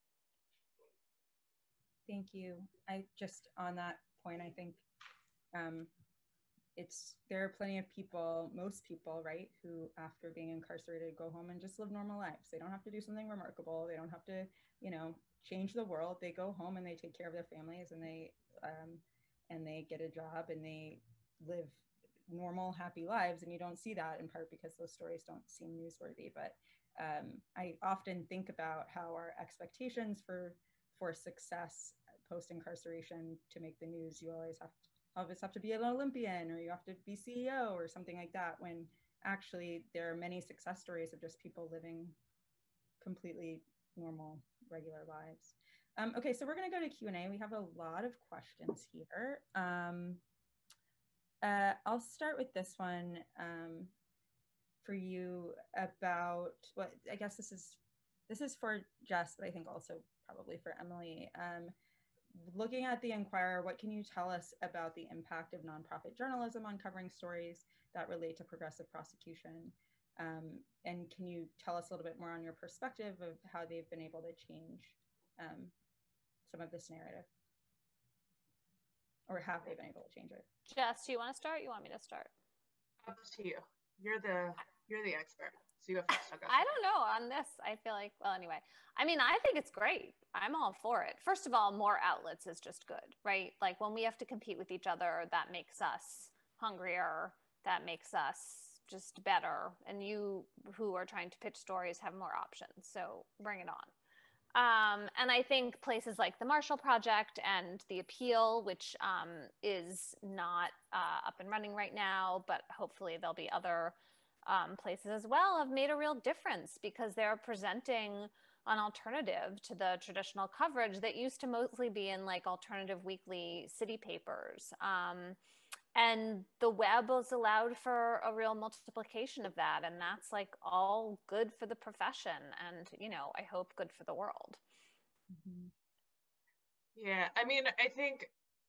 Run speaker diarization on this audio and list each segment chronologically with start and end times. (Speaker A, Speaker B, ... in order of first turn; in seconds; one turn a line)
Speaker A: 2.1-4.8
Speaker A: 5.5-5.9
Speaker A: 6.8-42.1
Speaker A: 43.0-50.2
Speaker A: 51.4-53.9
Speaker A: 54.8-61.7
Speaker A: 62.3-75.7
Speaker A: 76.5-77.3
Speaker A: 79.3-80.5
Speaker B: 80.7-82.3
Speaker C: 83.0-86.6
Speaker B: 86.5-103.9
Speaker B: 104.5-125.4
Speaker B: 125.9-134.6
Speaker A: 135.3-135.7
Speaker C: 136.9-138.3